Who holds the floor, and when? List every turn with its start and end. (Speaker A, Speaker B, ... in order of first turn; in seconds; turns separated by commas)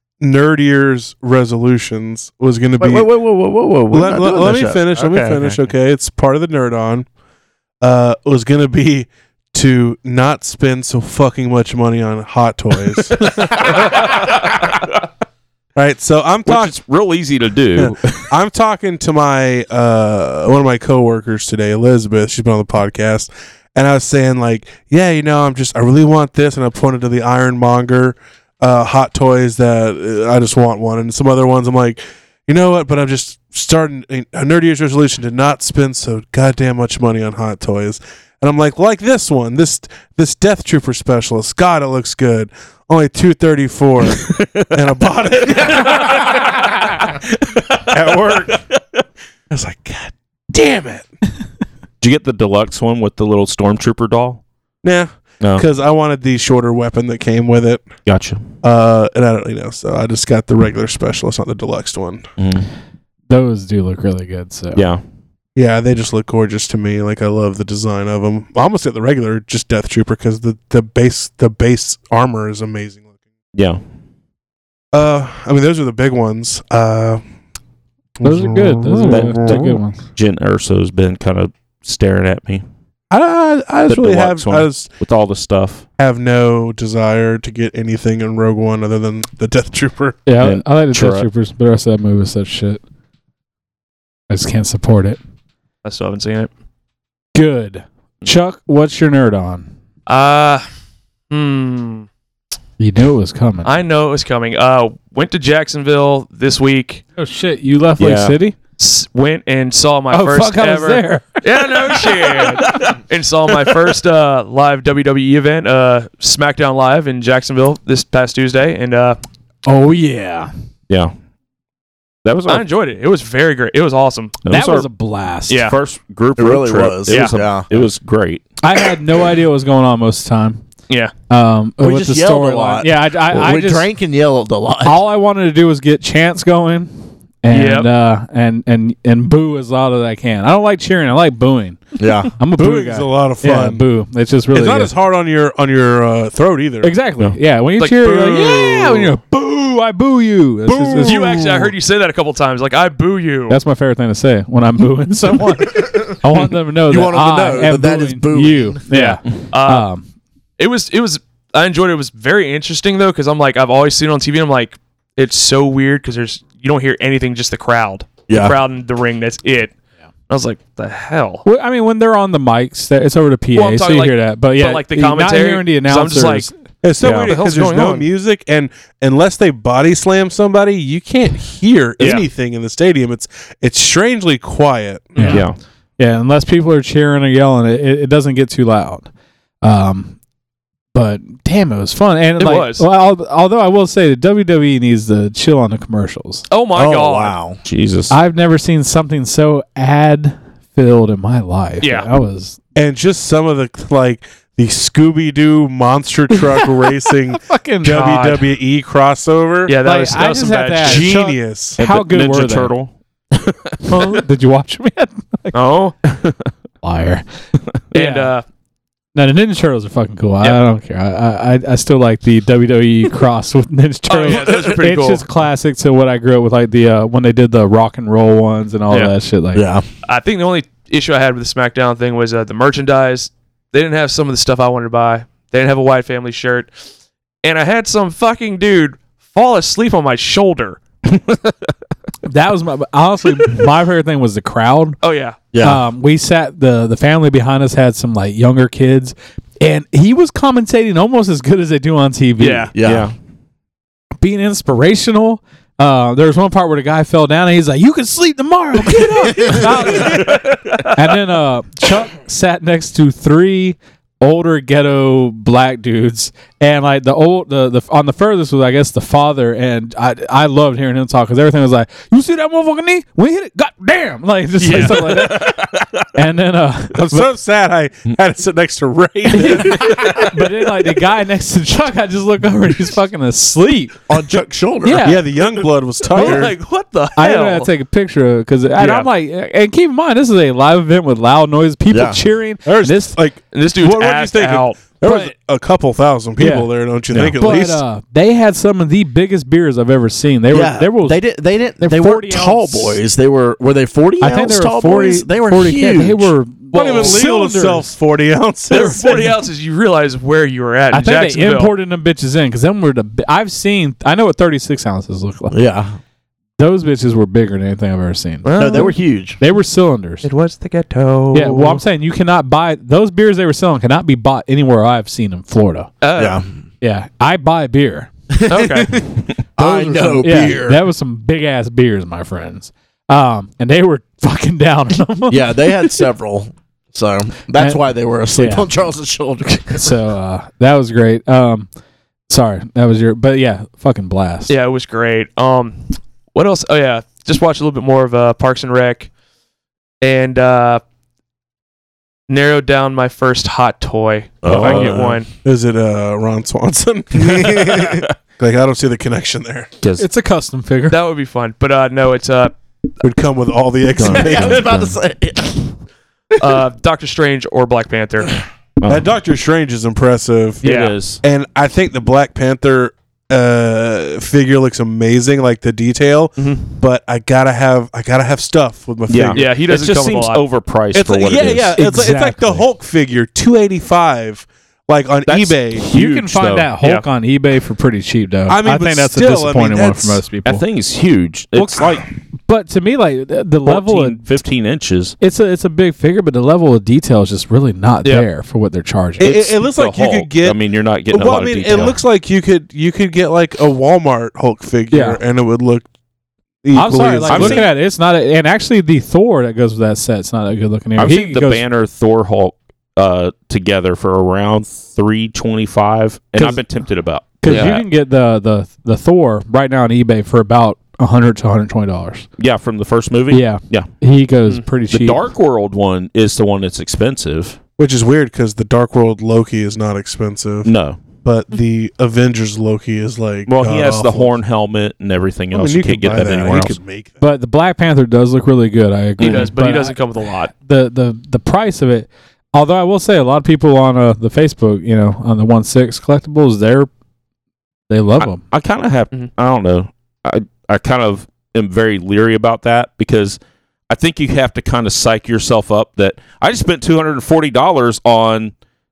Speaker A: 0.2-3.1, Speaker B: 2.8-5.6, Speaker A: 3.9-7.1, Speaker A: 7.8-14.3, Speaker A: 15.8-16.8, Speaker C: 16.5-18.3, Speaker A: 17.8-47.0, Speaker C: 44.2-44.7, Speaker A: 47.8-48.6, Speaker A: 49.5-51.1, Speaker C: 52.0-54.4, Speaker A: 54.8-57.9, Speaker C: 58.0-58.5, Speaker A: 58.6-62.3, Speaker C: 62.4-62.7, Speaker D: 63.3-64.8, Speaker C: 64.8-65.0, Speaker A: 65.6-73.0, Speaker C: 73.5-73.8, Speaker A: 74.9-77.2, Speaker A: 78.2-79.6, Speaker D: 78.2-80.0, Speaker C: 79.1-82.7, Speaker A: 83.1-85.0, Speaker C: 83.9-85.8, Speaker A: 86.0-90.2, Speaker D: 90.3-92.8, Speaker C: 90.4-91.3, Speaker D: 94.3-95.2, Speaker E: 95.8-96.5, Speaker D: 97.3-99.7, Speaker E: 100.1-100.7, Speaker E: 101.3-102.1, Speaker D: 102.8-103.8, Speaker E: 103.7-107.0, Speaker D: 107.2-108.5, Speaker C: 108.0-108.4, Speaker E: 108.8-119.2, Speaker D: 110.1-111.7, Speaker C: 112.4-112.9, Speaker D: 119.7-120.5, Speaker C: 122.2-122.7, Speaker E: 122.5-124.3, Speaker C: 124.4-124.9, Speaker D: 124.5-125.6, Speaker E: 125.5-125.8, Speaker C: 125.6-128.4, Speaker B: 126.4-127.7, Speaker E: 127.1-127.3, Speaker D: 128.6-130.6, Speaker D: 131.3-133.9, Speaker B: 131.8-135.0, Speaker D: 134.8-141.8, Speaker E: 137.5-137.9, Speaker B: 142.0-142.3, Speaker D: 142.4-144.9, Speaker A: 142.6-143.8, Speaker A: 144.5-147.0, Speaker D: 146.8-151.2, Speaker E: 147.8-149.1, Speaker A: 150.7-151.7, Speaker E: 151.1-153.6, Speaker D: 153.5-160.1, Speaker B: 156.9-158.9, Speaker E: 159.5-159.9, Speaker E: 160.6-169.7, Speaker B: 168.3-168.6, Speaker E: 170.3-171.4, Speaker D: 171.4-176.5, Speaker E: 173.5-176.5, Speaker A: 176.8-185.2, Speaker C: 177.0-177.3, Speaker E: 177.2-178.1, Speaker E: 182.0-182.3, Speaker E: 185.2-185.4, Speaker D: 185.2-185.4, Speaker C: 185.3-185.6, Speaker D: 186.0-189.1, Speaker D: 189.6-190.2, Speaker D: 190.9-196.4, Speaker E: 192.4-192.8, Speaker E: 196.5-197.4, Speaker B: 196.8-197.6, Speaker C: 197.6-198.2, Speaker D: 198.1-202.6, Speaker E: 201.8-202.1, Speaker A: 202.8-209.8, Speaker D: 207.3-208.6, Speaker E: 209.7-211.2, Speaker D: 209.8-211.2, Speaker A: 210.8-211.8, Speaker D: 211.8-212.7, Speaker C: 211.8-214.1, Speaker D: 213.9-215.6, Speaker E: 213.9-214.2, Speaker E: 215.5-215.9, Speaker C: 216.1-216.5, Speaker D: 216.8-217.2, Speaker D: 217.9-218.3, Speaker E: 217.9-218.4, Speaker D: 219.2-229.7, Speaker E: 224.1-225.2, Speaker B: 224.3-224.9, Speaker B: 229.6-229.8, Speaker E: 230.1-236.7, Speaker E: 237.4-240.8, Speaker C: 241.1-241.5, Speaker D: 242.3-245.0, Speaker E: 245.0-245.4, Speaker B: 245.5-245.8, Speaker D: 245.6-252.7, Speaker E: 252.4-252.7, Speaker B: 252.8-253.1, Speaker C: 252.8-253.2, Speaker D: 254.2-277.3, Speaker B: 259.3-259.6, Speaker E: 274.6-275.3, Speaker C: 274.7-276.1, Speaker A: 276.9-280.3, Speaker D: 279.3-284.0, Speaker B: 284.1-285.1, Speaker D: 284.8-285.3, Speaker A: 285.0-286.6, Speaker E: 286.1-287.7, Speaker D: 286.1-286.5, Speaker D: 287.2-293.2, Speaker E: 288.8-289.1, Speaker B: 291.9-292.2, Speaker A: 292.6-297.8, Speaker E: 293.5-294.8, Speaker D: 295.0-295.3, Speaker D: 296.4-296.7, Speaker C: 297.1-297.4, Speaker D: 297.3-301.2, Speaker B: 300.5-306.3, Speaker D: 301.8-303.0, Speaker D: 304.2-307.9, Speaker E: 306.7-307.2, Speaker A: 306.7-309.3, Speaker E: 308.7-311.7, Speaker D: 310.9-315.6, Speaker B: 315.5-316.0, Speaker D: 316.6-320.2, Speaker E: 318.4-318.9, Speaker B: 318.6-319.4, Speaker E: 320.2-321.8, Speaker D: 321.3-325.9, Speaker E: 326.0-326.4, Speaker B: 326.2-326.5, Speaker D: 326.8-328.1, Speaker B: 328.3-330.8, Speaker E: 328.5-329.0, Speaker D: 329.6-335.6, Speaker B: 335.3-339.9, Speaker D: 337.6-338.7, Speaker D: 339.8-341.7, Speaker D: 342.3-344.5, Speaker E: 344.5-349.1, Speaker E: 350.0-350.8, Speaker E: 352.3-355.3, Speaker C: 354.4-355.2, Speaker A: 354.5-359.7, Speaker C: 359.8-360.1, Speaker D: 360.0-361.0, Speaker E: 360.9-362.6, Speaker A: 363.0-364.7, Speaker C: 364.0-364.9, Speaker B: 364.0-365.8, Speaker E: 366.4-368.4, Speaker C: 368.8-369.1, Speaker A: 368.9-370.7, Speaker E: 370.6-370.9, Speaker C: 370.6-371.2, Speaker A: 371.2-379.5, Speaker E: 376.4-376.7, Speaker C: 379.1-381.8, Speaker E: 379.3-380.4, Speaker A: 380.9-385.9, Speaker D: 381.7-382.6, Speaker C: 385.3-386.7, Speaker D: 385.8-390.6, Speaker A: 388.5-390.2, Speaker C: 390.4-392.1, Speaker D: 391.5-394.3, Speaker C: 393.6-395.1, Speaker D: 395.2-399.3, Speaker C: 399.2-402.0, Speaker A: 399.2-405.9, Speaker D: 404.9-405.2, Speaker A: 406.6-407.7, Speaker D: 406.7-411.6, Speaker C: 407.3-407.7, Speaker C: 411.0-417.9, Speaker D: 416.4-416.6, Speaker D: 417.2-422.3, Speaker C: 422.4-423.9, Speaker D: 423.3-425.3, Speaker C: 424.9-427.6, Speaker A: 427.8-434.4, Speaker C: 430.6-431.1, Speaker C: 433.5-436.8, Speaker A: 435.5-437.2, Speaker D: 437.2-440.0, Speaker E: 439.2-440.5, Speaker C: 439.2-439.5, Speaker D: 440.6-446.9, Speaker D: 447.9-448.4, Speaker C: 448.2-458.5